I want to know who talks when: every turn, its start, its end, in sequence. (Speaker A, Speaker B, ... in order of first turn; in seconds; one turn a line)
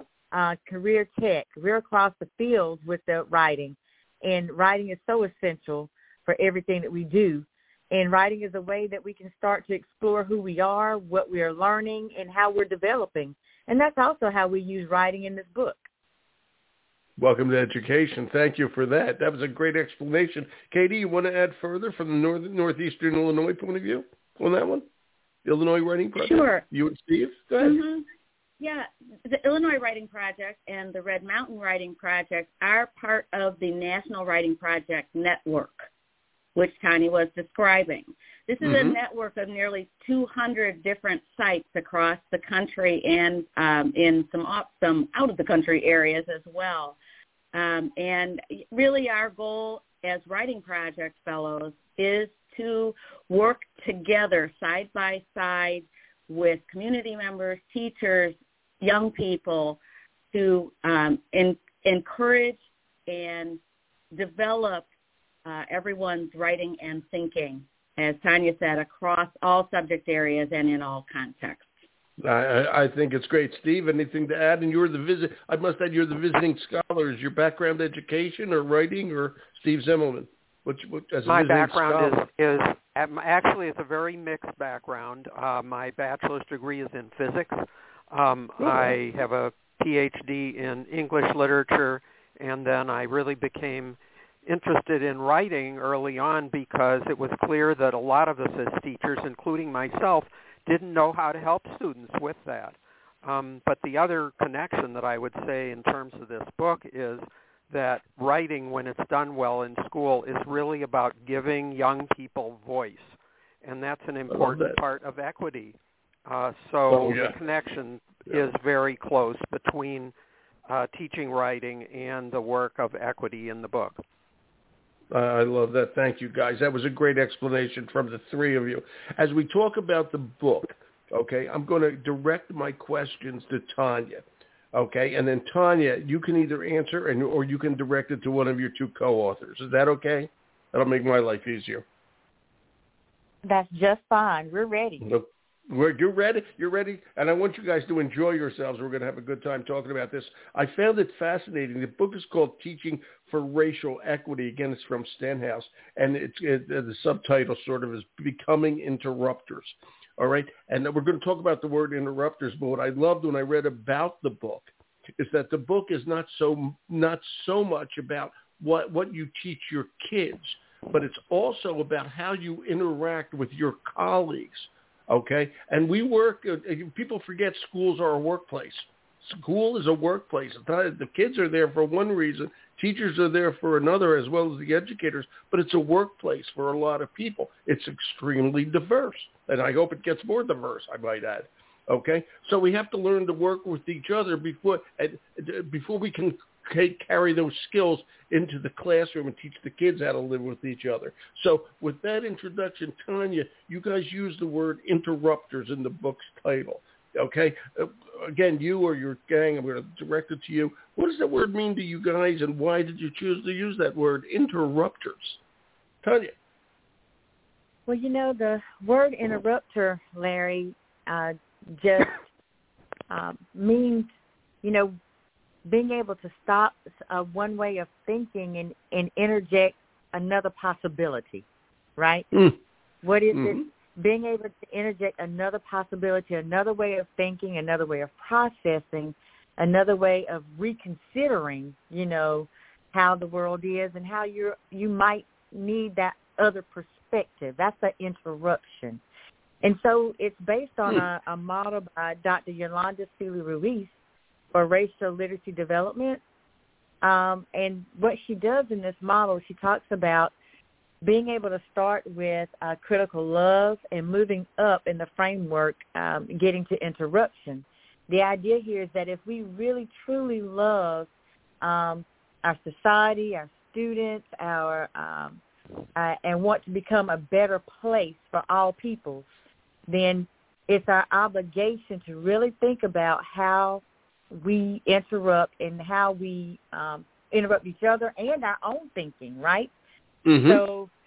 Speaker A: 0.3-15.8
Speaker B: 17.2-24.9
Speaker B: 25.4-27.8
Speaker C: 26.2-26.6
Speaker C: 27.6-28.1
Speaker C: 28.6-35.9
Speaker C: 36.5-47.0
Speaker B: 38.6-39.0
Speaker C: 47.5-59.8
Speaker C: 60.3-63.6
Speaker C: 64.1-64.8
Speaker C: 65.5-71.7
Speaker B: 72.2-82.2
Speaker D: 81.3-87.5
Speaker D: 88.1-120.1
Speaker B: 88.6-89.0
Speaker B: 114.3-114.8
Speaker B: 116.9-117.3
Speaker D: 120.7-124.0
Speaker B: 125.1-141.8
Speaker A: 143.4-145.0
Speaker B: 145.0-215.4
Speaker B: 216.0-216.3
Speaker A: 217.9-222.2
Speaker A: 223.1-224.1
Speaker A: 224.6-224.9
Speaker A: 225.7-231.4
Speaker A: 232.0-232.3
Speaker B: 232.3-232.6
Speaker A: 233.0-249.0
Speaker B: 233.3-233.6
Speaker A: 249.6-253.9
Speaker A: 254.5-256.2
Speaker A: 257.0-260.3
Speaker A: 261.0-271.1
Speaker A: 271.6-275.4
Speaker A: 275.9-279.2
Speaker A: 279.9-289.7
Speaker B: 290.2-290.6
Speaker A: 290.4-290.9